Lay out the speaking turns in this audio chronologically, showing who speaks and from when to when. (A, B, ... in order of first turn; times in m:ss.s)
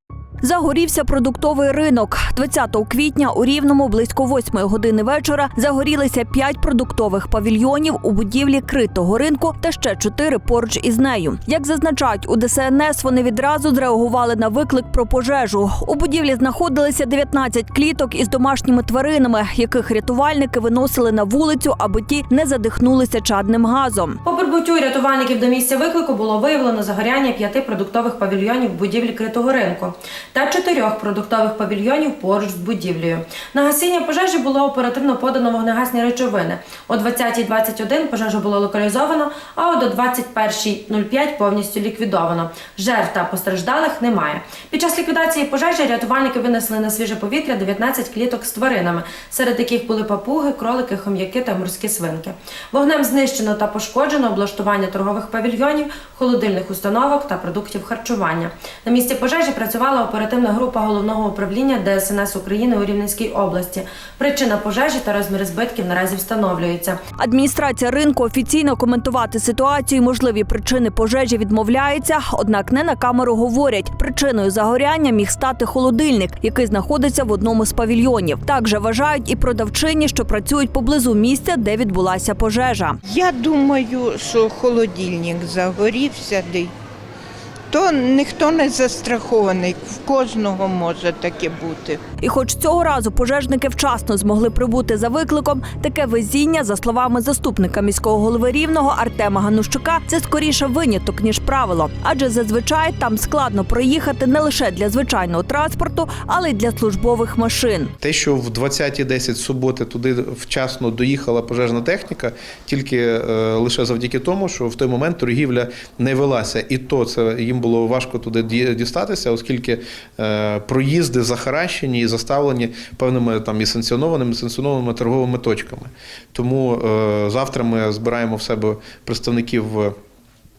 0:00.4-0:24.2 A
0:24.2-1:07.0 B
1:07.2-1:23.0 A
1:23.1-1:26.7 C
1:27.7-1:32.0 C
1:32.2-1:47.9 A
1:48.0-2:09.9 D